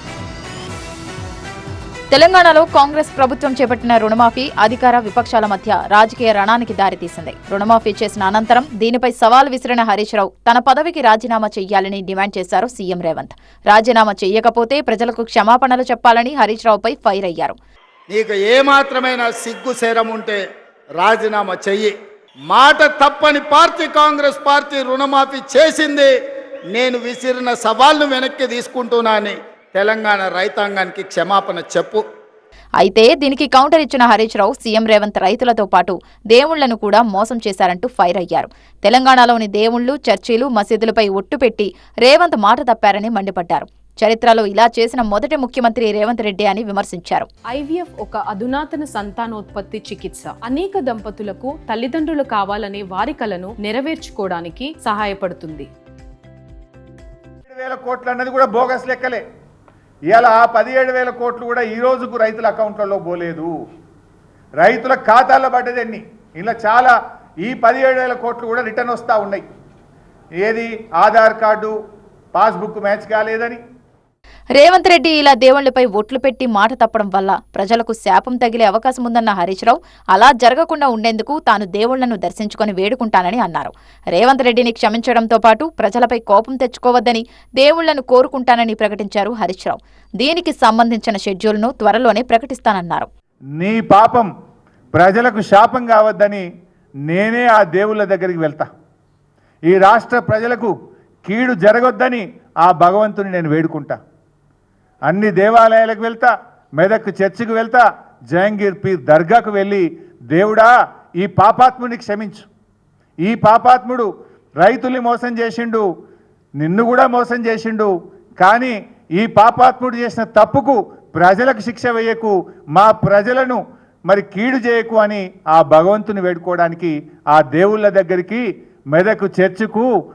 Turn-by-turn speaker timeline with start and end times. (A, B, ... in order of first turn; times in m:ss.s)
0:02.1-0:17.5 A
0:18.1-0:20.4 B
0:21.0-0:21.9 B
0:22.5-0:26.1 B
0:26.7-0:32.0 B
0:32.8-0:47.3 A
0:47.5-0:55.7 C
0:57.5-0:59.2 D
1:00.1-1:03.5 D
1:04.6-1:09.4 D
1:10.4-1:11.7 D
1:12.3-1:13.6 D
1:14.6-1:33.1 A
1:33.6-1:34.3 D
1:34.9-1:36.4 D
1:37.0-1:38.7 D
1:39.7-1:40.7 D
1:41.2-1:44.0 D
1:45.1-1:52.5 D
1:53.2-1:54.1 D
1:54.6-1:55.8 D
1:56.6-2:09.9 D